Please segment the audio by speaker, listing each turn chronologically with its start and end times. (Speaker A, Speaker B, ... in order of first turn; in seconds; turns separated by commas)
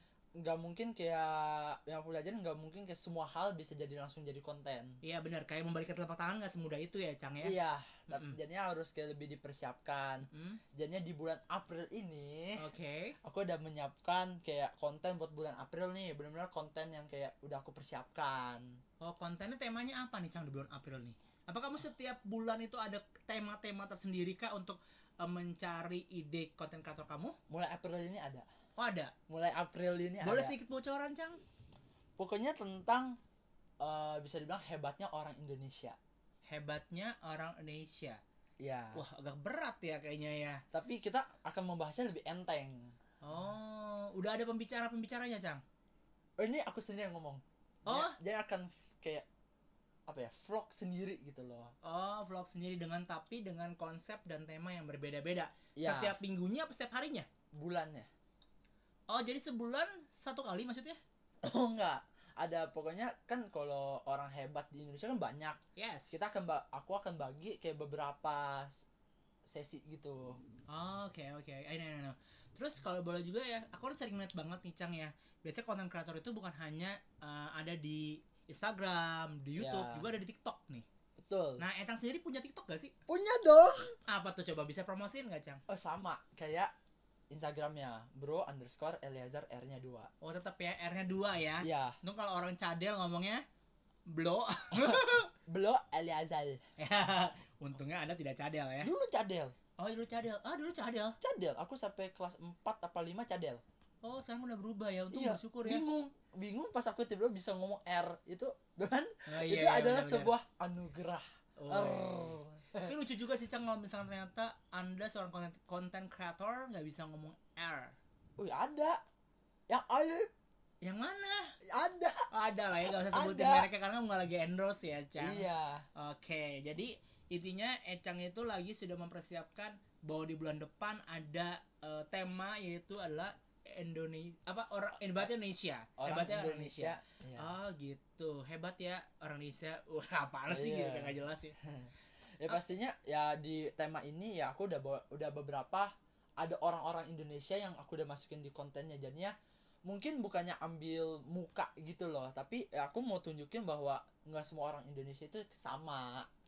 Speaker A: 0.4-5.0, Speaker B: 5.0-7.5, Speaker A: 7.4-12.7, Speaker B: 8.1-8.4, Speaker B: 10.3-10.6, Speaker B: 12.6-13.2, Speaker A: 13.2-18.8, Speaker B: 19.0-27.4, Speaker A: 27.5-28.5, Speaker B: 28.8-29.1, Speaker A: 29.3-30.6, Speaker B: 30.2-31.4, Speaker A: 32.2-33.2, Speaker A: 33.8-36.0, Speaker B: 36.5-38.2, Speaker A: 38.6-39.0, Speaker B: 39.0-40.6, Speaker A: 40.7-42.9, Speaker B: 43.2-45.6, Speaker A: 46.4-49.3, Speaker B: 47.9-48.2, Speaker A: 50.1-51.7, Speaker B: 51.8-57.3, Speaker A: 55.8-56.2, Speaker A: 57.5-58.1, Speaker B: 59.1-61.0, Speaker A: 61.4-65.6, Speaker B: 65.8-66.2, Speaker A: 66.1-68.9, Speaker A: 69.5-70.4, Speaker B: 70.7-80.9, Speaker A: 79.6-80.0, Speaker A: 81.2-81.6, Speaker B: 81.6-82.9, Speaker A: 83.1-84.0, Speaker B: 84.1-85.6, Speaker A: 85.7-86.7, Speaker A: 87.3-90.1, Speaker B: 90.2-93.4, Speaker A: 91.6-92.0, Speaker B: 94.1-95.3, Speaker A: 94.8-96.6, Speaker B: 96.8-98.9, Speaker A: 98.8-99.5, Speaker B: 99.8-101.2, Speaker A: 101.2-103.6, Speaker B: 104.0-105.8, Speaker A: 105.1-112.9, Speaker B: 109.3-110.3, Speaker B: 111.6-118.0, Speaker A: 118.4-119.0, Speaker A: 119.7-120.3, Speaker B: 120.8-121.5, Speaker A: 121.7-122.3, Speaker B: 122.3-141.6, Speaker A: 122.9-123.7, Speaker A: 125.2-125.9, Speaker A: 136.0-137.5, Speaker A: 140.5-141.2, Speaker A: 141.7-149.3, Speaker A: 149.9-156.3